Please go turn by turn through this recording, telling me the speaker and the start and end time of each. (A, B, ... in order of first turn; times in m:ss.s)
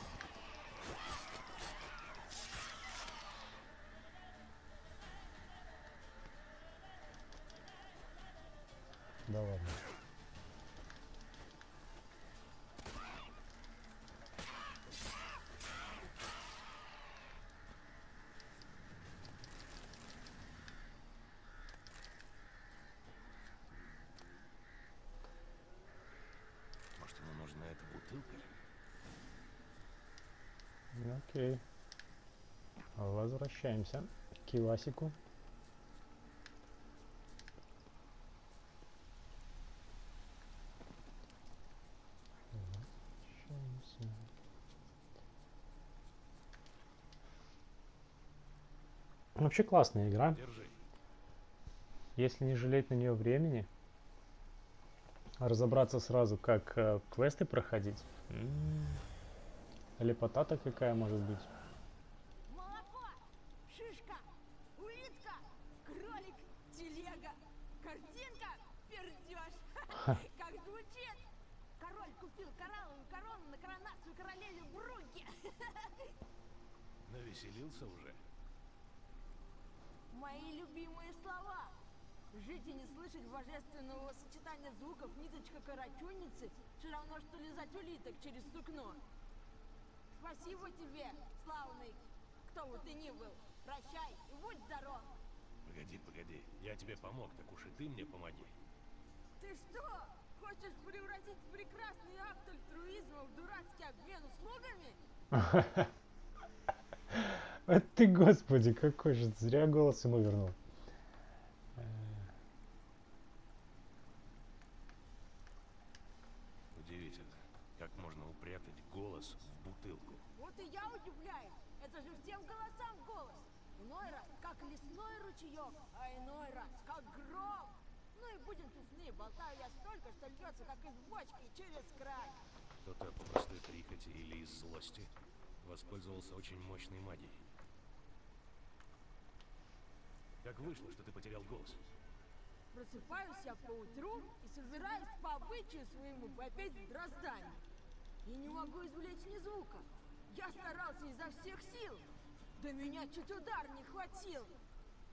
0:09.3-0:09.8 A
0:26.9-0:28.5 B
0:30.9-0:31.6 A
0:33.0-0:35.1 A
0:42.5-0:44.2 A
0:49.4-0:50.4 A
0:50.3-0:50.8 B
0:52.2-0:53.7 A
0:55.4-0:59.0 A
1:00.0-1:01.5 A
1:02.5-1:11.2 C
1:11.8-1:16.1 C
1:17.0-1:18.2 B
1:20.1-1:21.8 C
1:22.3-1:29.0 C
1:30.1-1:35.1 C
1:35.6-1:38.5 B
1:39.4-1:45.0 C
1:45.3-1:45.9 A
1:47.1-1:50.6 A
1:51.8-1:52.3 A
1:56.7-2:00.2 B
2:00.4-2:12.4 C
2:12.8-2:17.4 B
2:20.4-2:21.9 B
2:22.7-2:27.6 C
2:28.2-2:34.6 C